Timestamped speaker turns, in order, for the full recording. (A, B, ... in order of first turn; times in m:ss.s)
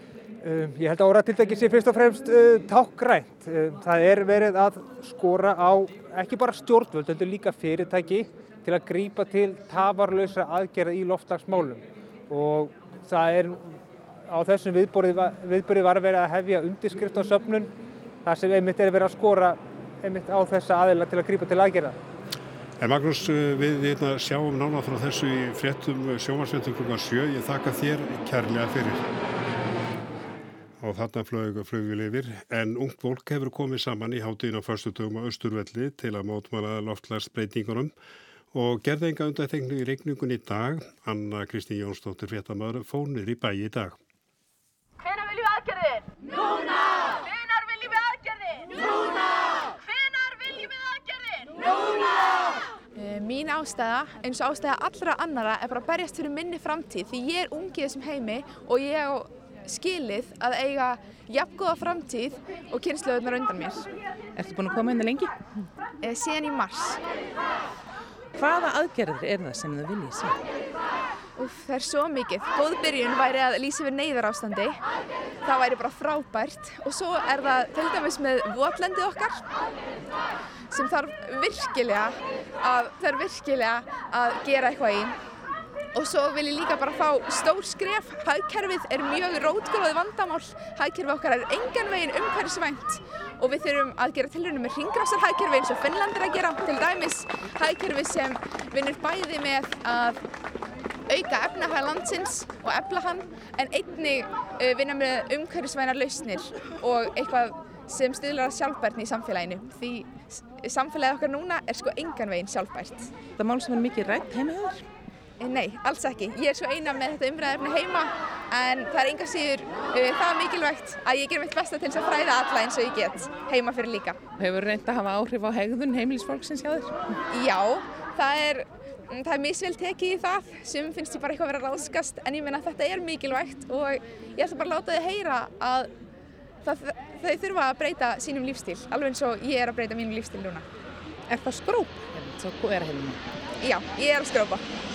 0:00.4-0:17.7 A
0:18.2-0:22.0 A
0:22.8-0:29.1 B
0:30.8-0:37.9 B
0:38.5-0:44.0 B
0:45.0-0:46.1 C
0:47.2-0:51.9 C
0:52.9-1:03.9 D
1:04.3-1:05.4 E
1:06.0-1:07.0 D
1:08.3-1:10.4 E
1:11.4-1:14.8 D
1:15.4-1:19.4 D
1:20.7-1:25.1 D
1:25.9-1:40.2 D
1:41.1-1:53.1 D
1:53.4-1:54.8 E
1:55.4-2:04.2 D
2:04.4-2:07.2 E
2:07.3-2:15.9 D
2:16.6-2:20.6 D
2:21.3-2:23.2 E
2:23.6-2:24.6 D